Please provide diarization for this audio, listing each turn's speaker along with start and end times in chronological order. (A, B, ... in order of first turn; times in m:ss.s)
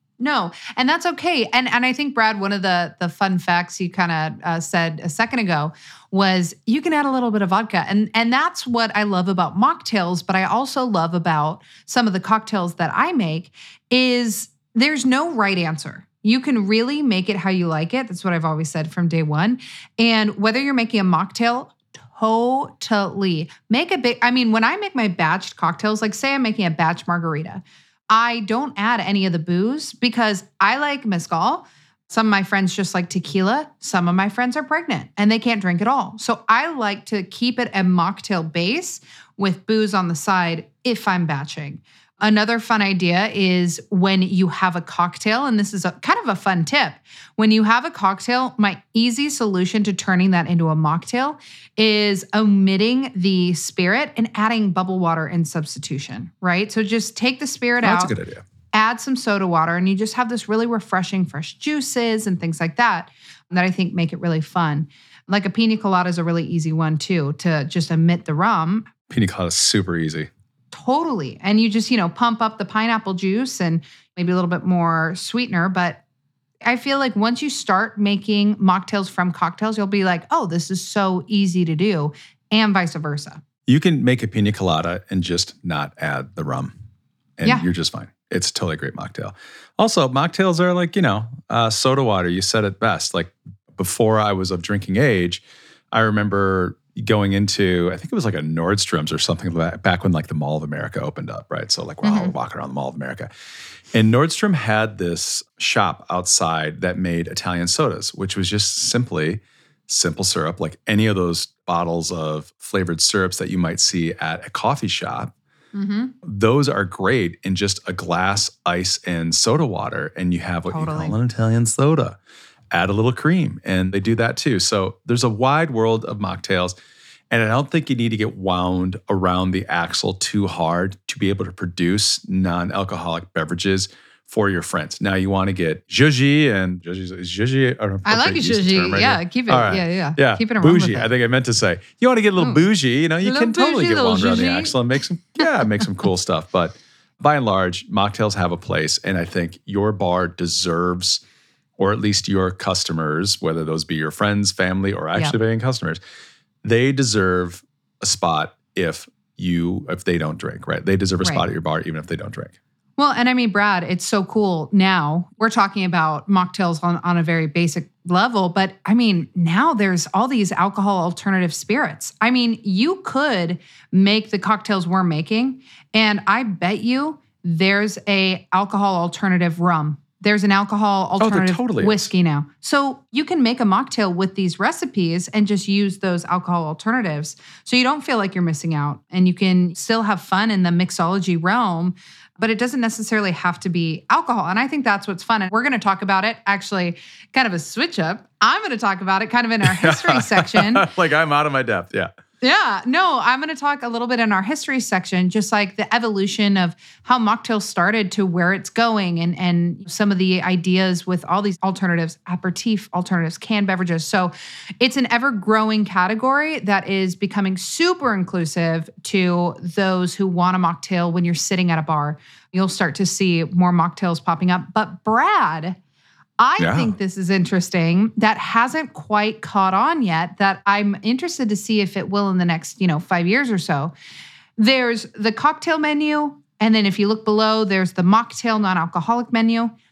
0:00.2-0:58.1 A
0:57.8-0:58.4 B
0:58.7-1:08.9 A
1:09.1-1:10.3 B
1:10.7-1:16.0 A
1:16.6-1:23.4 A
1:23.7-1:26.7 B
1:27.4-1:43.3 B
1:42.0-1:42.3 A
1:43.9-1:55.3 B
1:55.7-1:56.1 A
1:56.2-2:02.2 B
2:00.7-2:01.2 A
2:02.7-2:06.7 B
2:07.3-2:31.2 B
2:18.0-2:21.1 A
2:22.4-2:22.6 A
2:23.2-2:24.8 A
2:31.8-2:36.0 B
2:36.6-2:42.6 B
2:43.0-3:20.9 A
3:01.2-3:02.1 B
3:19.6-3:22.1 B
3:22.4-3:45.8 A
3:46.4-3:53.9 A
3:46.6-3:46.9 B
3:54.6-3:59.7 A